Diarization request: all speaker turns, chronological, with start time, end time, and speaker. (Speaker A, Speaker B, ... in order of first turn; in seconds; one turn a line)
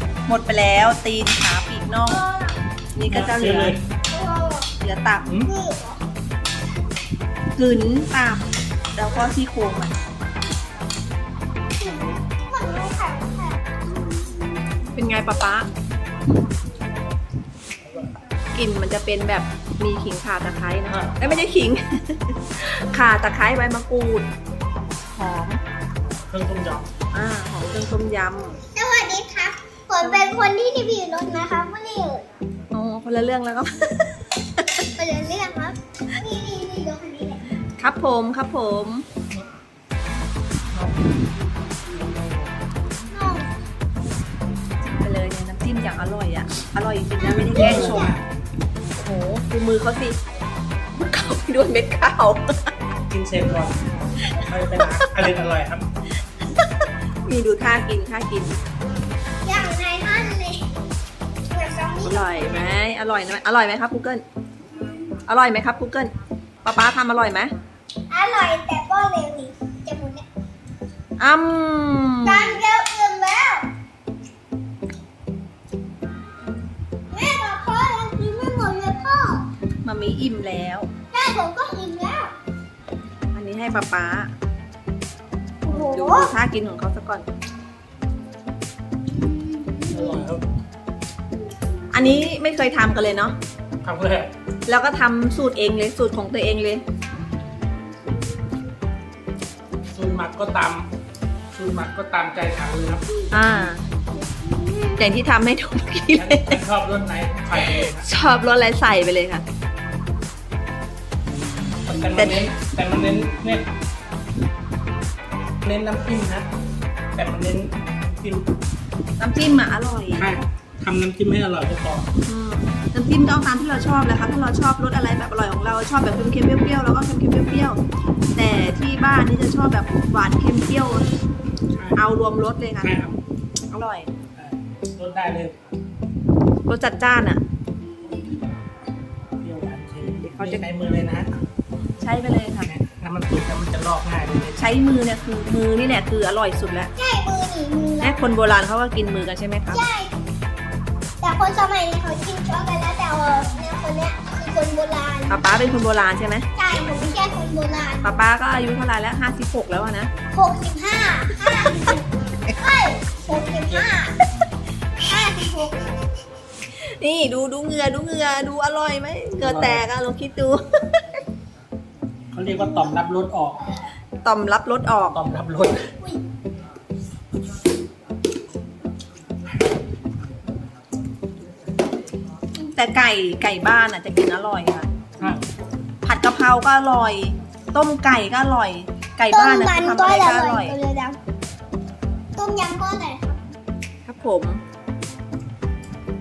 Speaker A: 0.3-2.2
Speaker B: 2.1-2.6
Speaker A: 2.9-3.8
Speaker C: 3.1-3.8
Speaker B: 4.1-4.7
Speaker A: 4.8-5.3
Speaker C: 5.2-5.5
Speaker B: 5.4-6.0
Speaker A: 7.5-10.0
Speaker B: 11.8-14.8
Speaker A: 14.9-15.7
Speaker A: 18.5-24.3
Speaker C: 20.9-21.5
Speaker A: 25.1-25.6
Speaker C: 26.3-26.9
Speaker A: 27.1-28.6
Speaker B: 28.7-32.2
Speaker A: 30.0-30.3
Speaker A: 32.7-34.7
Speaker B: 34.9-37.4
Speaker A: 37.8-39.0
Speaker C: 40.7-41.1
Speaker C: 41.9-42.5
Speaker B: 43.1-43.5
Speaker A: 44.8-48.1
Speaker B: 47.2-48.1
Speaker C: 47.5-48.2
Speaker A: 49.0-50.2
Speaker A: 50.9-52.7
Speaker C: 53.1-55.8
Speaker A: 54.2-55.2
Speaker A: 56.5-58.6
Speaker B: 59.4-60.6
Speaker B: 61.5-62.7
Speaker A: 62.0-64.2
Speaker A: 65.3-66.1
Speaker A: 66.6-67.5
Speaker B: 68.1-70.2
Speaker A: 71.2-72.6
Speaker B: 72.2-73.7
Speaker B: 77.1-79.5
Speaker A: 79.8-80.9
Speaker B: 81.1-82.3
Speaker A: 83.3-84.3
Speaker B: 85.6-86.3
Speaker A: 85.7-87.3
Speaker B: 89.1-90.3
Speaker C: 89.9-90.5
Speaker A: 91.9-93.3
Speaker B: 92.0-92.3
Speaker C: 93.8-94.3
Speaker A: 94.7-96.8
Speaker C: 99.9-100.9
Speaker C: 101.5-103.0
Speaker A: 103.3-103.8
Speaker B: 104.1-105.0
Speaker A: 105.0-106.6
Speaker C: 106.1-108.1
Speaker A: 107.6-109.4
Speaker C: 111.3-113.7
Speaker A: 112.2-112.5
Speaker C: 115.6-116.5
Speaker C: 117.1-118.5
Speaker A: 119.2-120.3
Speaker C: 120.1-122.1
Speaker A: 122.2-127.8
Speaker A: 128.3-131.1
Speaker C: 131.7-132.0
Speaker A: 131.9-133.0
Speaker C: 132.8-133.2
Speaker A: 133.7-134.1
Speaker C: 134.3-135.6
Speaker A: 136.7-137.4
Speaker B: 138.0-138.4
Speaker C: 139.4-141.3
Speaker A: 140.2-140.6
Speaker A: 142.0-142.7
Speaker C: 142.6-144.7
Speaker A: 144.6-146.9
Speaker B: 147.0-148.3
Speaker A: 148.0-149.8
Speaker B: 149.7-150.1
Speaker B: 151.2-155.5
Speaker A: 155.3-156.5
Speaker B: 156.6-158.1
Speaker A: 158.0-160.1
Speaker B: 160.3-162.0
Speaker A: 161.5-161.8
Speaker B: 162.6-164.2
Speaker C: 163.3-163.9
Speaker B: 165.1-165.8
Speaker A: 166.8-171.1
Speaker C: 169.4-169.8
Speaker C: 172.3-173.6
Speaker B: 172.5-172.9
Speaker A: 174.2-175.2
Speaker C: 175.1-175.9
Speaker A: 182.7-184.9
Speaker C: 185.2-185.5
Speaker A: 186.0-190.8
Speaker B: 189.3-191.2
Speaker B: 192.4-193.4
Speaker A: 194.1-194.6